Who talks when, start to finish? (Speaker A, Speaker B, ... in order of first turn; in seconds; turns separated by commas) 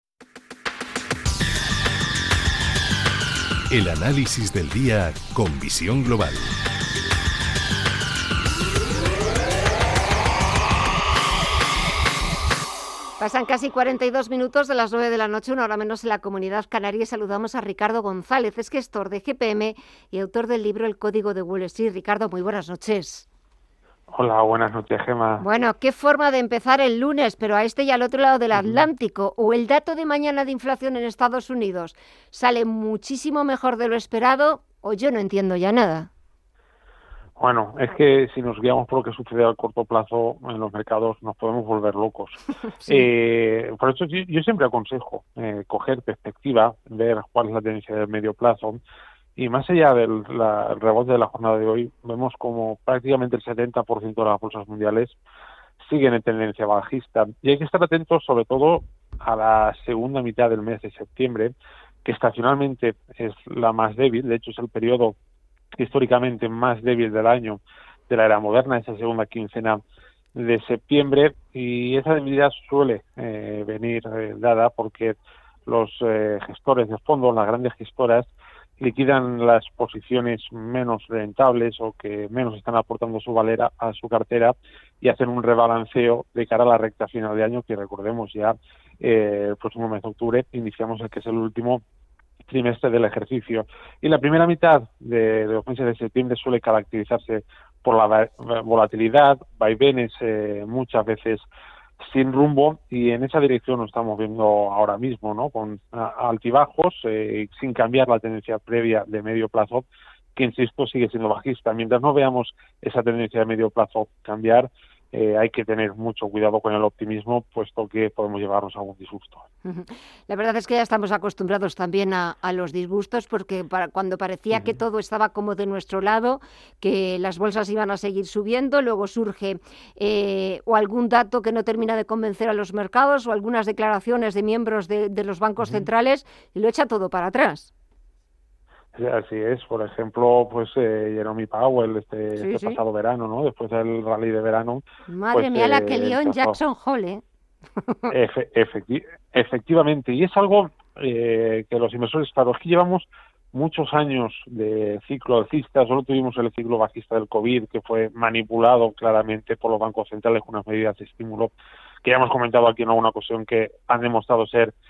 Speaker A: 3.7-6.5, Speaker B: 13.2-23.3, Speaker C: 24.1-25.4, Speaker B: 25.4-36.1, Speaker C: 28.5-28.9, Speaker C: 37.4-48.8, Speaker B: 42.8-43.1, Speaker C: 49.4-55.2, Speaker C: 55.8-61.5, Speaker C: 62.0-65.2, Speaker C: 65.8-69.8, Speaker C: 70.3-91.8, Speaker C: 92.5-101.4, Speaker C: 102.0-109.8, Speaker C: 110.3-119.4, Speaker B: 119.6-137.7, Speaker C: 135.6-135.9, Speaker C: 138.9-146.6, Speaker B: 142.4-142.8, Speaker B: 145.1-147.2, Speaker B: 147.8-148.1, Speaker C: 148.1-161.5, Speaker C: 162.0-164.7